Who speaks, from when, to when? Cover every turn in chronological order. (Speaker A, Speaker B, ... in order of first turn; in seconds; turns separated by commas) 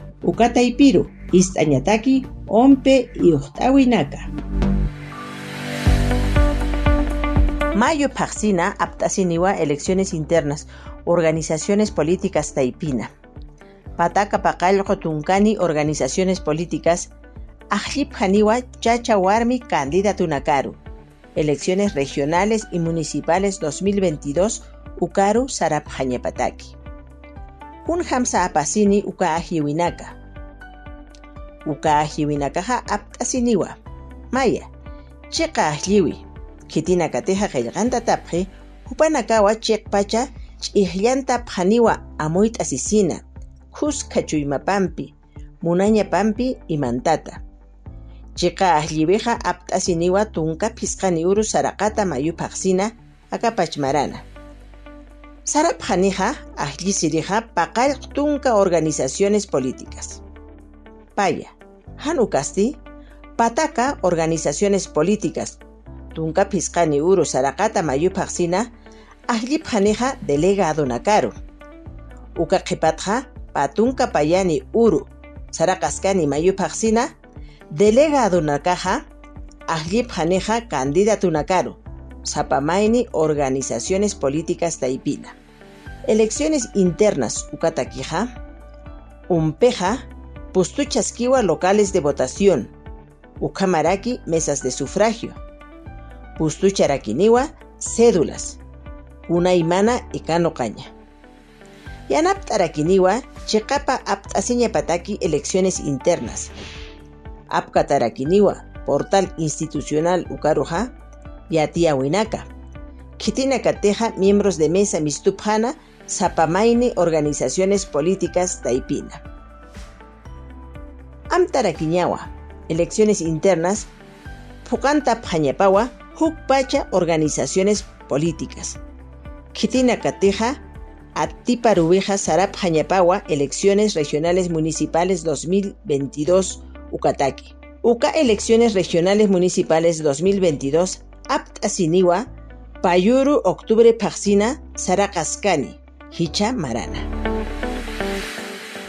Speaker A: 0.2-4.3, Speaker A: 7.8-13.1, Speaker A: 14.0-17.1, Speaker A: 17.7-20.8, Speaker A: 21.4-26.8, Speaker A: 27.8-30.2, Speaker A: 31.7-33.8, Speaker A: 34.3-34.7, Speaker A: 35.3-47.4, Speaker A: 48.4-54.2, Speaker A: 55.5-60.2, Speaker A: 61.2-62.8, Speaker A: 63.4-65.6, Speaker A: 66.1-68.7, Speaker A: 69.3-71.3, Speaker A: 72.4-77.1, Speaker A: 77.7-79.0, Speaker A: 79.7-85.4, Speaker A: 86.1-88.3, Speaker A: 89.3-92.7, Speaker A: 93.4-95.4, Speaker A: 96.4-98.6, Speaker A: 99.3-100.9, Speaker A: 102.1-106.5, Speaker A: 107.5-110.9, Speaker A: 111.5-112.5, Speaker A: 113.2-119.2, Speaker A: 121.3-123.9, Speaker A: 124.6-128.8, Speaker A: 129.5-130.6, Speaker A: 131.2-142.2, Speaker A: 142.8-147.1